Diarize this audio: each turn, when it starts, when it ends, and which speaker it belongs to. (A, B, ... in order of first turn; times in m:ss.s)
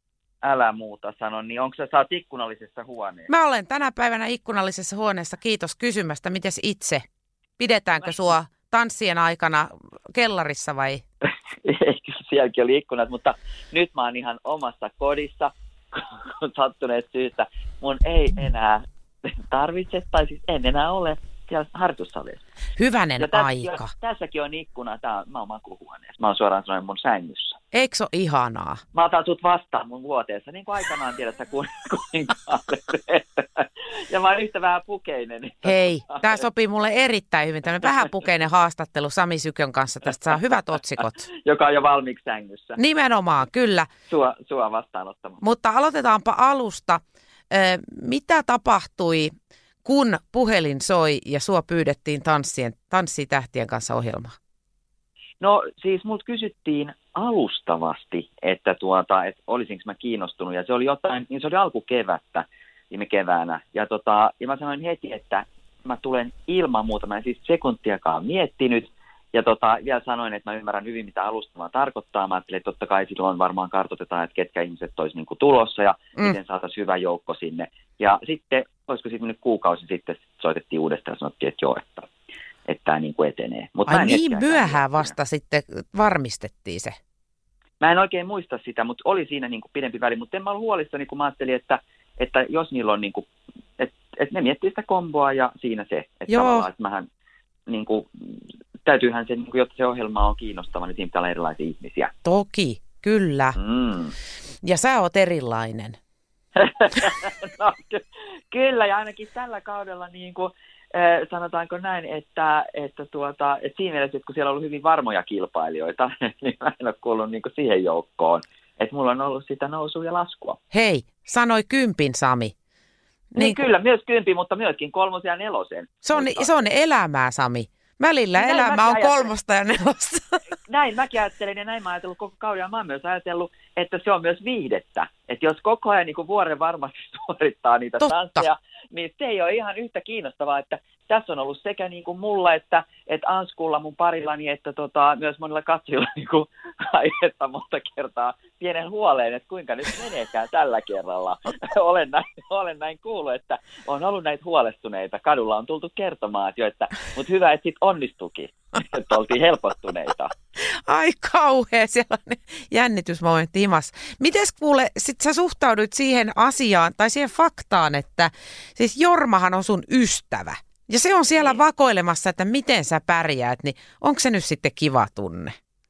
0:00.4-0:03.3 A
0:03.3-0:07.0 B
0:07.6-0:11.0 B
0:11.2-0:22.4 A
0:22.8-0:23.9 B
0:23.2-0:27.6 A
0:27.7-0:28.8 B
0:28.9-0:36.4 A
0:35.6-0:41.2 B
0:41.3-0:42.8 A
0:42.8-0:43.9 B
0:44.1-0:45.4 A
0:45.4-0:49.3 B
0:49.8-0:54.3 B
0:55.4-1:22.1 A
1:22.7-1:25.1 A
1:23.9-1:27.0 B
1:27.8-1:33.3 A
1:33.8-1:37.1 A
1:36.3-1:36.7 B
1:37.7-1:42.1 A
1:42.2-1:43.6 B
1:43.6-1:44.1 A
1:44.6-1:46.0 B
1:46.6-2:00.6 A
2:00.7-2:02.5 B
2:03.3-2:06.5 A
2:03.4-2:03.6 B
2:06.0-2:10.4 B
2:08.4-2:09.3 A
2:10.6-2:40.3 A
2:18.0-2:18.5 B
2:40.6-2:55.5 B